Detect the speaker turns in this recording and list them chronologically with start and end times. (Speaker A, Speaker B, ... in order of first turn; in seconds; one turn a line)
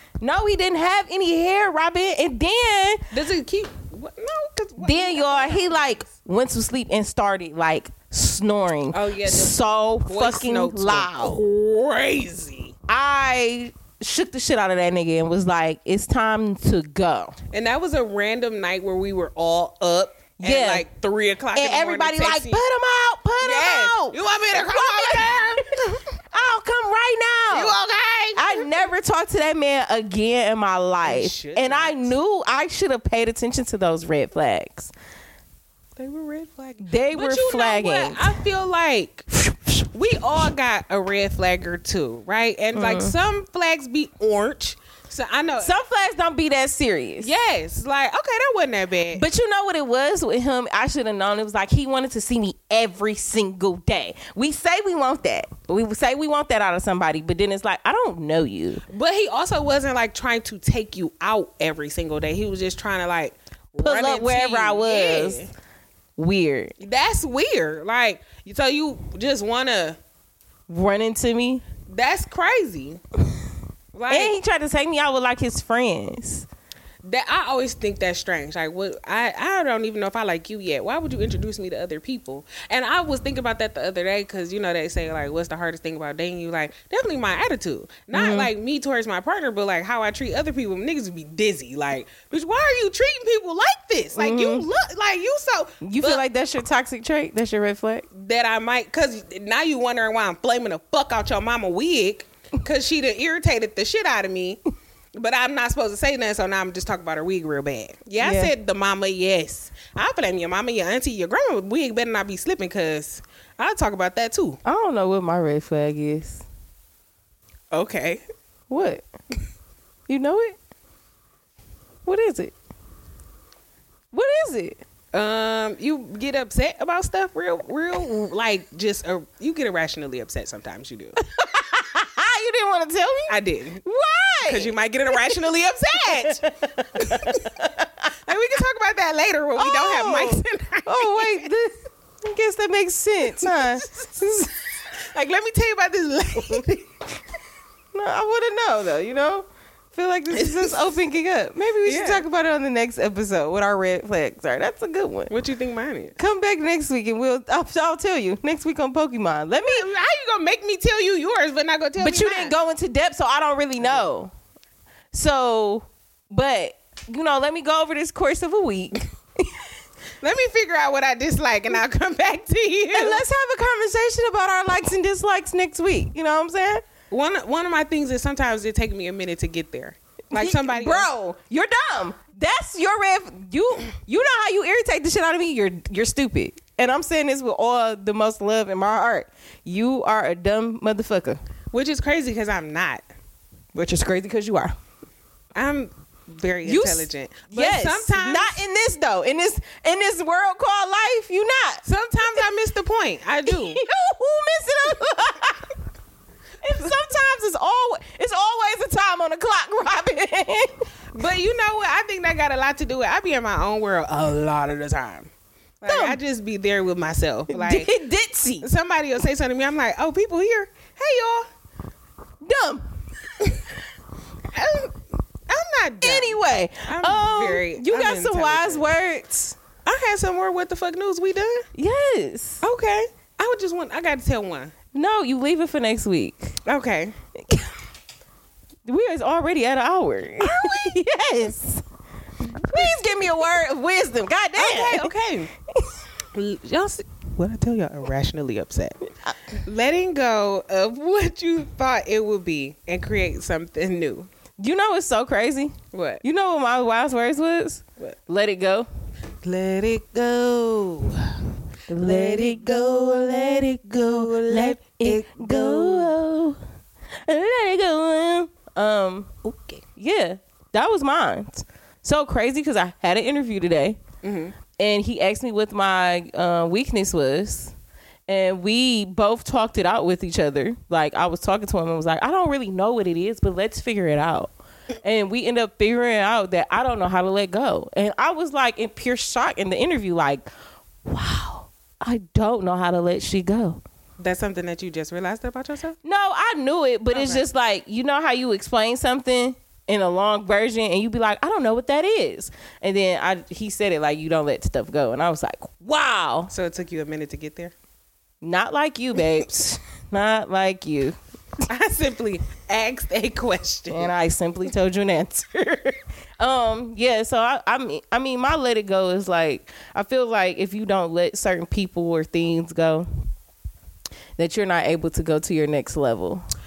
Speaker A: 0.2-3.0
Speaker B: 3.1-6.1
Speaker A: 4.8-11.4
Speaker B: 8.9-12.7
Speaker A: 12.9-17.3
Speaker B: 17.5-22.6
Speaker A: 20.4-20.9
Speaker A: 21.6-25.6
Speaker B: 23.4-26.0
Speaker A: 26.3-27.8
Speaker B: 27.5-28.9
Speaker A: 28.4-34.9
Speaker B: 31.0-32.1
Speaker B: 36.0-39.3
Speaker A: 36.8-38.3
Speaker B: 39.9-45.8
Speaker A: 42.7-43.1
Speaker A: 45.6-47.3
Speaker B: 47.2-49.2
Speaker A: 49.1-58.8
Speaker B: 58.9-65.5
Speaker A: 63.8-65.5
Speaker A: 66.2-66.7
Speaker B: 66.8-70.0
Speaker A: 70.7-71.6
Speaker B: 71.9-73.0
Speaker B: 73.9-74.4
Speaker A: 74.1-76.5
Speaker B: 77.0-96.2
Speaker A: 88.1-88.5
Speaker A: 94.2-94.7
Speaker A: 95.8-98.1
Speaker B: 98.1-104.6
Speaker B: 105.1-114.6
Speaker A: 108.2-108.5
Speaker A: 114.7-116.4
Speaker B: 117.7-118.2
Speaker A: 118.7-119.0
Speaker A: 120.1-120.6
Speaker A: 122.0-122.5
Speaker A: 124.1-124.8
Speaker B: 125.1-131.2
Speaker A: 131.3-135.4
Speaker B: 133.3-133.8
Speaker B: 134.4-137.5
Speaker A: 136.1-137.9
Speaker B: 138.3-141.5
Speaker A: 139.6-144.5
Speaker B: 145.1-146.9
Speaker A: 147.9-155.3
Speaker B: 150.3-150.9
Speaker B: 151.8-152.2
Speaker B: 155.3-156.2
Speaker A: 156.2-159.9
Speaker B: 159.6-162.5
Speaker A: 162.0-164.3
Speaker A: 165.1-169.6
Speaker B: 170.2-173.2
Speaker A: 172.9-176.8
Speaker B: 177.1-181.1
Speaker A: 180.3-191.4
Speaker B: 191.7-193.0
Speaker A: 193.7-194.8
Speaker B: 195.6-198.6
Speaker A: 196.6-201.8
Speaker B: 201.8-203.8
Speaker A: 203.5-205.7
Speaker A: 206.6-210.8
Speaker B: 211.1-215.3
Speaker B: 215.8-217.9
Speaker A: 215.9-216.2
Speaker A: 217.5-218.7
Speaker B: 218.6-221.5
Speaker A: 222.4-222.8
Speaker B: 224.5-228.9
Speaker A: 226.0-229.6
Speaker B: 229.8-231.7
Speaker A: 231.8-232.6
Speaker B: 232.6-234.7
Speaker A: 234.9-236.6
Speaker B: 236.7-237.2
Speaker A: 238.9-241.8
Speaker B: 240.4-241.0
Speaker A: 242.6-245.1
Speaker B: 242.7-243.0
Speaker B: 244.6-245.5
Speaker B: 246.3-254.3
Speaker A: 254.6-258.9
Speaker B: 255.9-256.2
Speaker B: 259.4-261.2
Speaker A: 261.9-266.6
Speaker B: 261.9-266.1
Speaker A: 267.3-269.4
Speaker B: 269.4-269.8
Speaker A: 270.0-274.0
Speaker B: 274.2-274.6
Speaker A: 274.8-277.7
Speaker A: 278.3-290.5
Speaker A: 291.1-293.8
Speaker B: 294.2-296.0
Speaker A: 296.0-306.5
Speaker B: 297.1-297.4
Speaker B: 306.5-307.7
Speaker A: 308.4-311.2
Speaker B: 311.7-314.1
Speaker A: 313.9-323.1
Speaker A: 324.4-326.4